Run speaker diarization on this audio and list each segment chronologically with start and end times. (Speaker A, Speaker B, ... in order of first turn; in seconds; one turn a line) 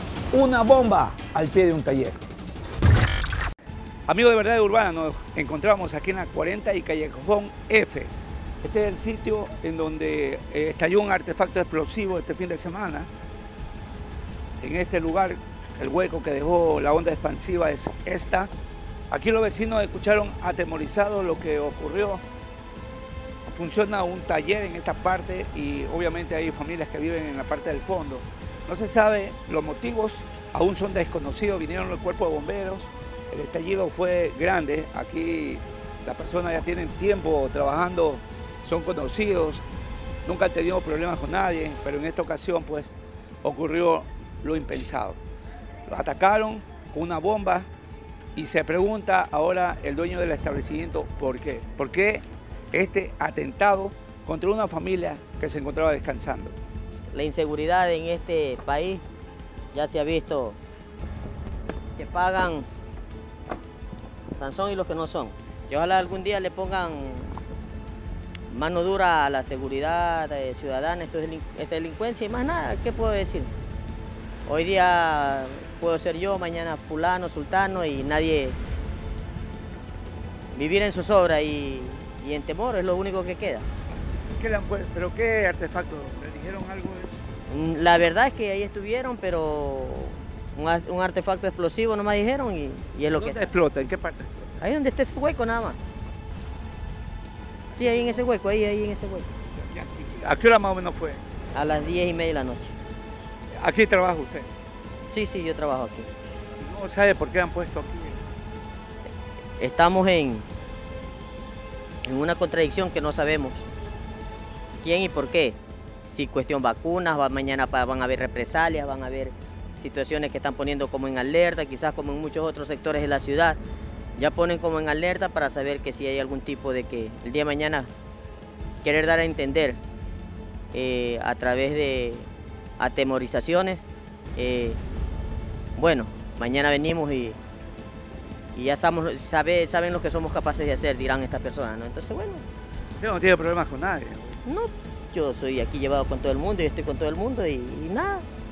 Speaker A: 0.3-2.2
Speaker A: 4.1-8.1
Speaker A: 8.6-13.1
Speaker A: 14.6-18.5
Speaker A: 19.1-22.2
Speaker A: 23.5-39.6
Speaker A: 40.2-45.2
Speaker A: 45.9-47.7
Speaker A: 48.4-56.5
Speaker B: 57.1-59.0
Speaker B: 59.7-60.6
Speaker B: 62.0-62.7
Speaker B: 64.3-67.4
Speaker B: 68.5-73.5
Speaker B: 74.5-78.6
Speaker B: 80.5-83.7
Speaker A: 84.3-87.2
Speaker B: 87.5-93.5
Speaker A: 93.1-94.5
Speaker B: 94.6-95.8
Speaker B: 97.8-99.3
Speaker A: 99.6-101.2
Speaker B: 101.5-102.7
Speaker A: 103.5-104.5
Speaker B: 105.1-106.1
Speaker A: 106.6-108.2
Speaker B: 109.6-110.5
Speaker B: 112.1-113.7
Speaker B: 114.8-123.6
Speaker B: 124.2-127.9
Speaker B: 128.8-129.8
Speaker B: 130.7-132.3
Speaker B: 132.8-133.8
Speaker B: 134.4-134.8
Speaker B: 135.8-137.4
Speaker B: 138.6-142.4
Speaker A: 143.0-144.4
Speaker B: 144.4-148.2